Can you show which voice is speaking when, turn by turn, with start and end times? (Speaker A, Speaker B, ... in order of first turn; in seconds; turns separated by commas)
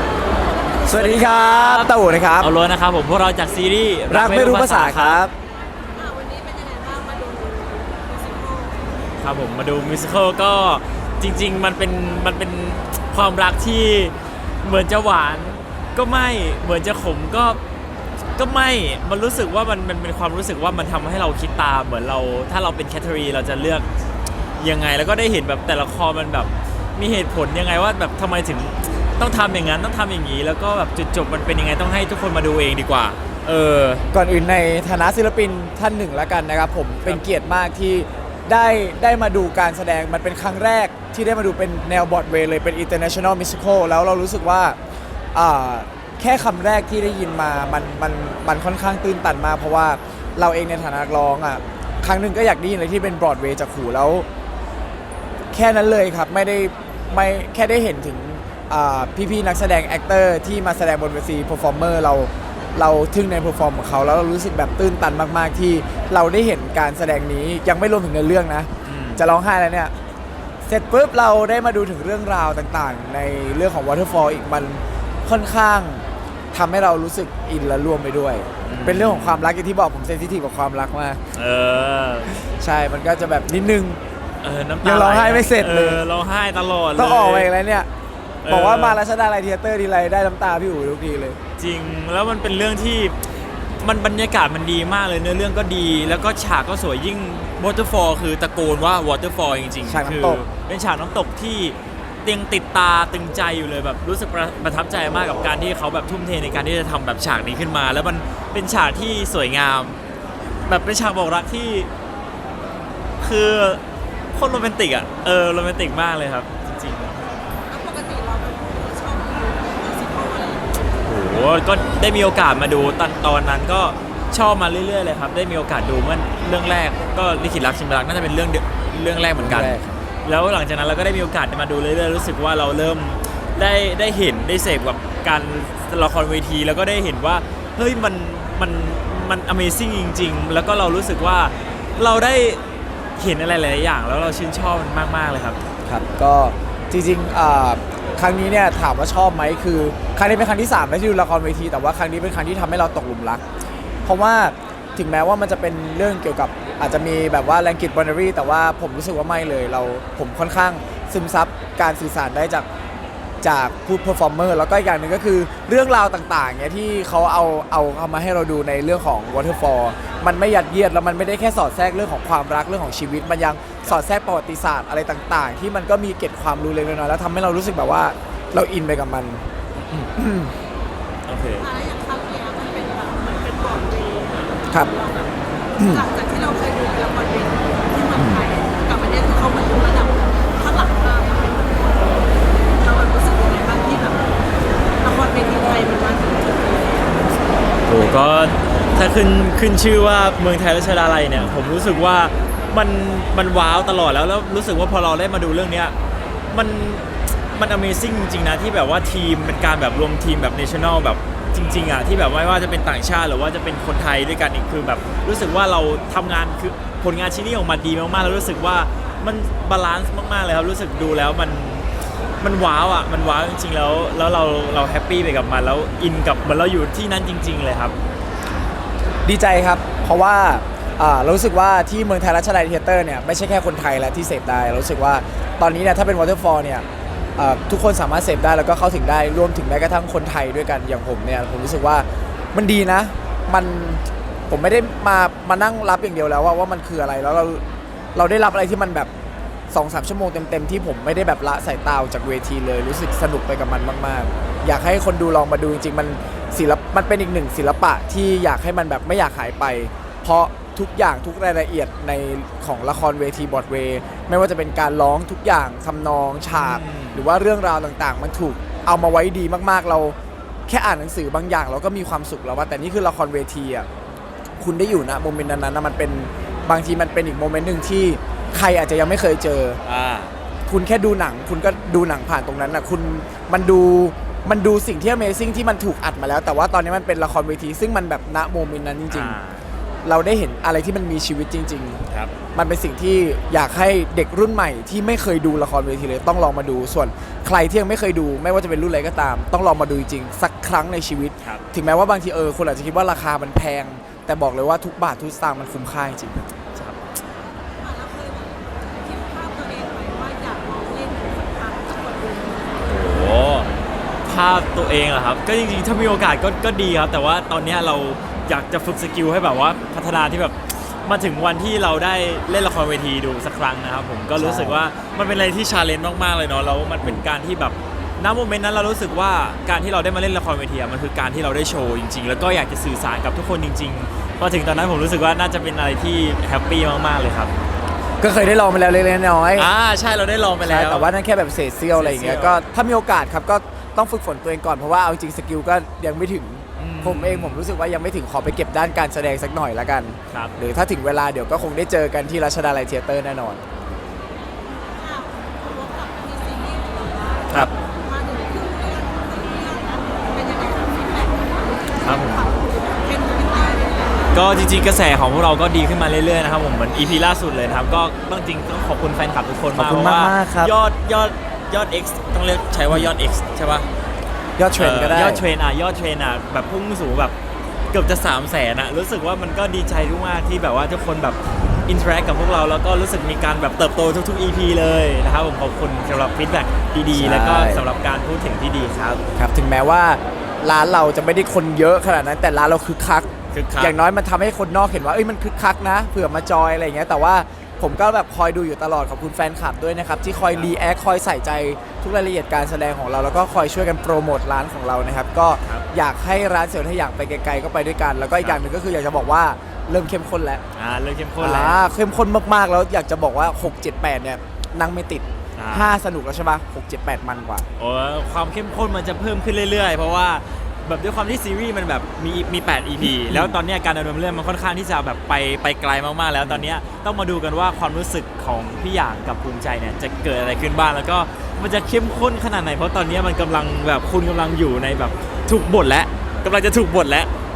Speaker A: 0.8-2.5, Speaker B: 0.9-5.2, Speaker A: 4.1-5.3, Speaker C: 5.9-8.8, Speaker B: 9.2-17.6, Speaker B: 18.4-23.9, Speaker B: 24.6-34.0, Speaker A: 34.1-44.8, Speaker A: 45.3-54.2, Speaker A: 55.5-69.9, Speaker B: 68.8-69.3, Speaker A: 70.7-81.2, Speaker B: 78.7-79.5, Speaker B: 81.3-82.3, Speaker A: 82.6-84.0, Speaker B: 84.4-87.5, Speaker A: 84.8-86.0, Speaker A: 87.0-87.9, Speaker B: 88.4-89.0, Speaker A: 88.5-91.4, Speaker B: 91.6-93.1, Speaker B: 93.8-110.0, Speaker A: 99.8-100.4, Speaker B: 110.7-111.9, Speaker B: 113.2-113.8, Speaker B: 114.3-117.2, Speaker C: 117.7-120.8, Speaker B: 121.0-142.6, Speaker A: 129.3-130.0, Speaker B: 143.2-145.6, Speaker A: 145.8-153.4, Speaker A: 154.0-162.7, Speaker A: 163.4-179.4, Speaker A: 180.0-180.5, Speaker B: 181.3-181.7, Speaker C: 181.6-194.2, Speaker A: 185.8-186.0, Speaker A: 188.1-188.4, Speaker C: 195.0-197.1, Speaker B: 197.9-205.9, Speaker B: 206.5-221.9, Speaker B: 222.4-227.9, Speaker A: 229.2-236.8, Speaker A: 237.4-247.6, Speaker A: 248.2-249.1, Speaker A: 249.7-270.1, Speaker B: 266.5-267.2, Speaker A: 270.7-273.9, Speaker A: 274.6-279.8, Speaker B: 279.8-280.3, Speaker A: 280.7-289.4, Speaker B: 289.1-289.6, Speaker A: 290.0-306.5, Speaker B: 306.8-307.0, Speaker C: 307.7-313.0, Speaker B: 312.8-313.7, Speaker B: 314.3-337.5, Speaker A: 324.4-324.8, Speaker A: 338.2-339.7, Speaker B: 339.6-341.1, Speaker A: 340.6-353.6, Speaker B: 341.9-342.6, Speaker B: 346.8-347.6, Speaker C: 354.6-364.5, Speaker B: 362.0-362.5, Speaker B: 364.3-373.9, Speaker A: 369.7-370.7, Speaker A: 374.6-375.4, Speaker B: 374.8-377.3, Speaker B: 377.9-389.2, Speaker A: 387.1-387.9, Speaker A: 389.4-410.6, Speaker B: 393.5-393.9, Speaker B: 410.7-411.8, Speaker A: 411.4-417.7, Speaker B: 415.6-415.9, Speaker B: 417.8-437.3, Speaker A: 423.0-423.6, Speaker A: 426.4-426.7